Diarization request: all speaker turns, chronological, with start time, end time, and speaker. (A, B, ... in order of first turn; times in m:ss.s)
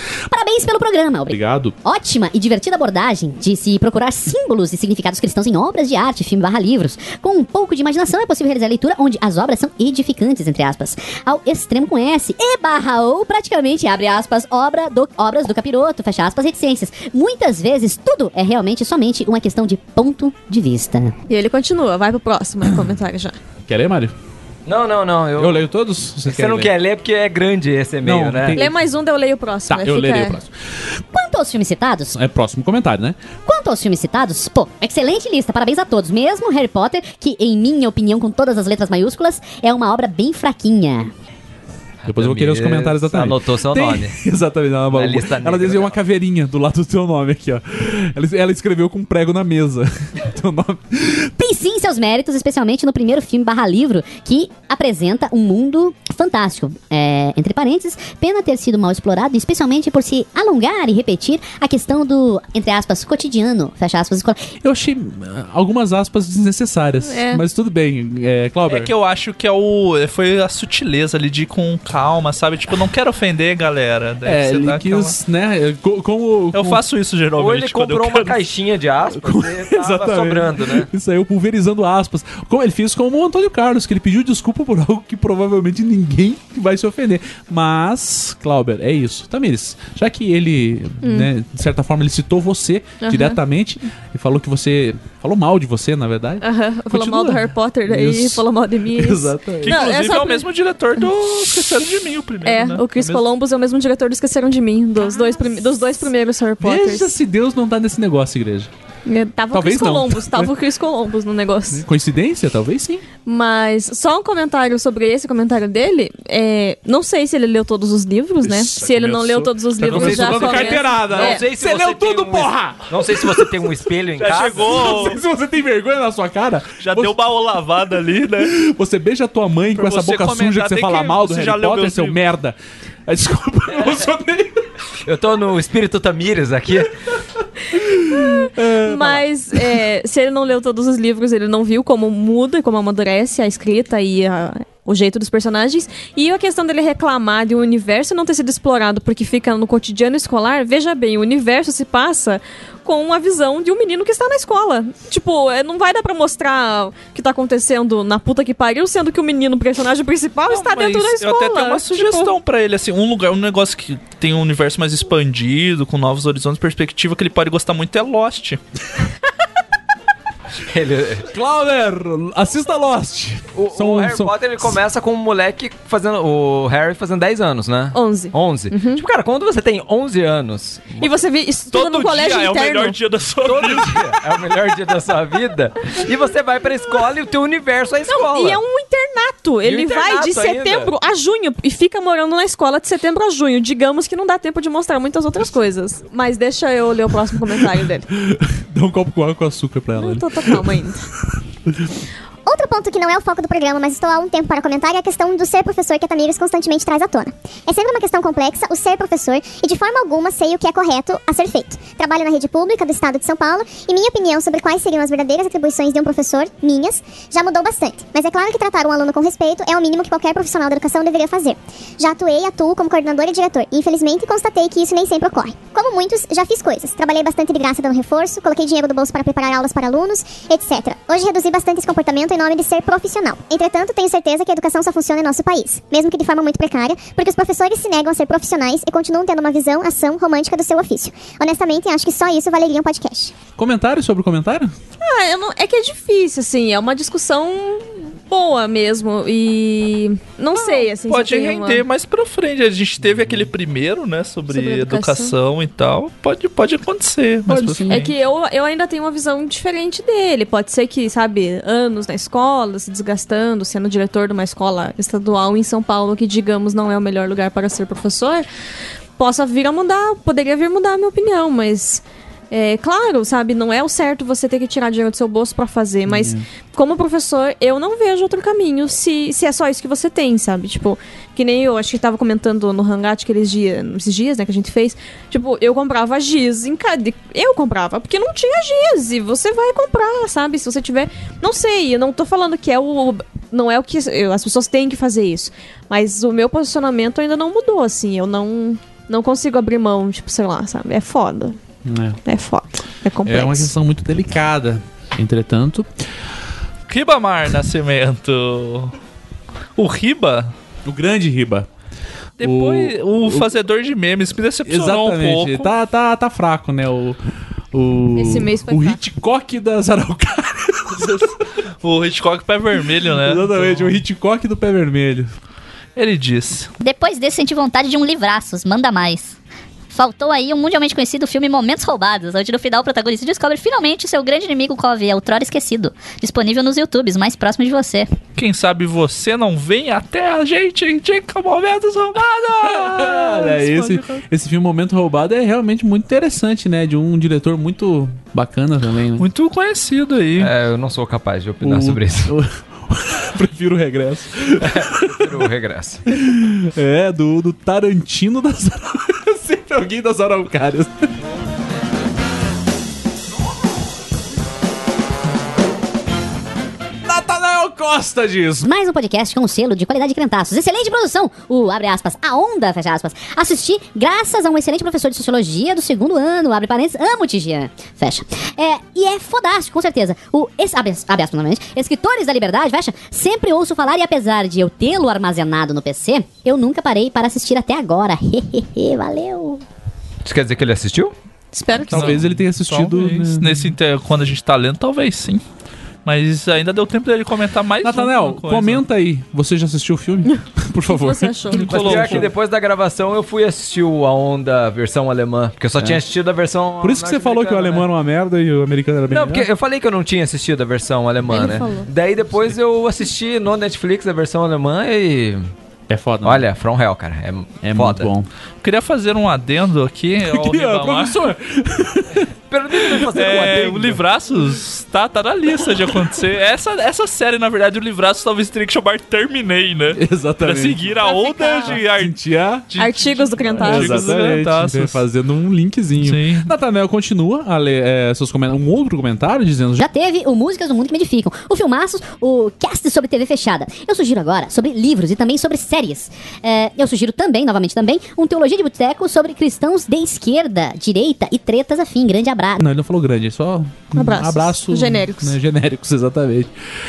0:00.3-0:21.1 A
0:01.3-0:01.7 B
0:21.3-0:23.4 C
0:23.6-0:24.1 B
0:24.6-0:25.6 D
0:25.4-0:26.7 B
0:26.2-0:28.6 D
0:28.0-0:28.7 B
0:28.5-0:30.4 C
0:29.7-0:30.5 B
0:31.1-0:32.1 A
0:32.1-0:33.3 B
0:33.4-0:41.1 A
0:42.0-0:44.1 D
0:42.1-0:51.3 B
0:44.9-0:45.9 D
0:51.4-1:04.5 A
1:04.6-1:08.9 B
1:07.0-1:07.4 C
1:08.7-1:15.1 E
1:14.2-1:16.8 B
1:16.5-1:18.4 E
1:17.4-1:20.9 D
1:19.2-1:39.8 B
1:31.0-1:31.3 C
1:33.0-1:33.4 C
1:36.4-1:40.4 C
1:39.6-1:42.8 E
1:42.4-1:47.1 C
1:43.0-1:43.2 B
1:46.6-1:48.7 B
1:49.1-1:51.8 C
1:49.5-1:50.5 B
1:51.7-1:53.0 B
1:53.2-2:01.4 C
1:58.4-2:03.7 B
1:59.8-2:00.4 E
1:59.8-2:04.8 D
2:04.2-2:05.2 E
2:04.6-2:07.2 B
2:06.8-2:08.5 E
2:08.4-2:14.7 B
2:09.7-2:12.2 E
2:15.0-2:16.9 D
2:17.7-2:19.6 B
2:18.0-2:42.3 C
2:40.5-2:48.6 E
2:50.7-2:51.3 D
2:51.3-2:54.8 B
2:53.6-3:01.1 D
2:57.9-2:59.0 C
3:01.0-3:03.0 C
3:01.7-3:04.1 E
3:03.4-3:08.6 D
3:08.1-3:18.1 C
3:09.6-3:10.9 D
3:18.1-3:20.6 B
3:19.9-3:21.0 C
3:22.4-4:03.3 F
4:03.6-4:04.7 B
4:05.0-4:11.8 C
4:10.6-4:18.1 E
4:14.5-4:15.3 C
4:17.5-4:18.1 B
4:17.9-4:28.4 C
4:29.2-5:01.6 C
4:36.1-4:36.4 B
5:01.8-5:02.2 B
5:02.2-5:03.7 C
5:03.2-5:05.9 B
5:06.9-5:09.0 E
5:09.8-5:10.5 E
5:10.8-5:11.7 B
5:12.4-5:15.7 E
5:12.4-5:13.5 B
5:14.6-5:17.2 B
5:17.7-5:21.2 B
5:18.2-5:19.0 C
5:20.9-5:24.0 E
5:23.0-5:25.3 B
5:26.0-5:26.7 E
5:26.8-5:29.4 G
5:29.9-5:38.1 G
5:38.4-5:44.2 E
5:42.4-5:49.2 B
5:49.2-5:50.5 E
5:50.4-5:52.3 D
5:51.6-5:55.3 B
5:54.6-5:56.0 D
5:56.1-6:01.1 B
6:07.0-6:08.7 B
6:08.6-6:29.6 A
6:30.2-6:31.1 D
6:31.5-6:32.2 C
6:31.9-6:33.7 B
6:31.9-6:35.4 E
6:36.0-6:38.8 E
6:37.8-6:42.3 B
6:40.2-6:41.6 C
6:41.6-6:42.3 E
6:41.7-6:47.9 D
6:46.8-6:49.5 B
6:49.1-6:55.5 D
6:51.3-6:51.9 C
6:55.9-6:56.5 B
6:56.2-6:58.1 D
6:57.6-6:58.3 B
6:58.6-7:01.2 E
7:00.2-7:03.2 B
7:02.5-7:04.0 D
7:03.1-7:12.2 E
7:09.9-7:10.9 B
7:11.0-7:11.8 C
7:11.6-7:12.6 B
7:12.7-7:15.0 E
7:12.8-7:14.3 C
7:13.6-7:19.8 B
7:16.0-7:16.5 E
7:19.8-7:32.6 A
7:32.6-7:36.5 B
7:33.9-7:35.3 C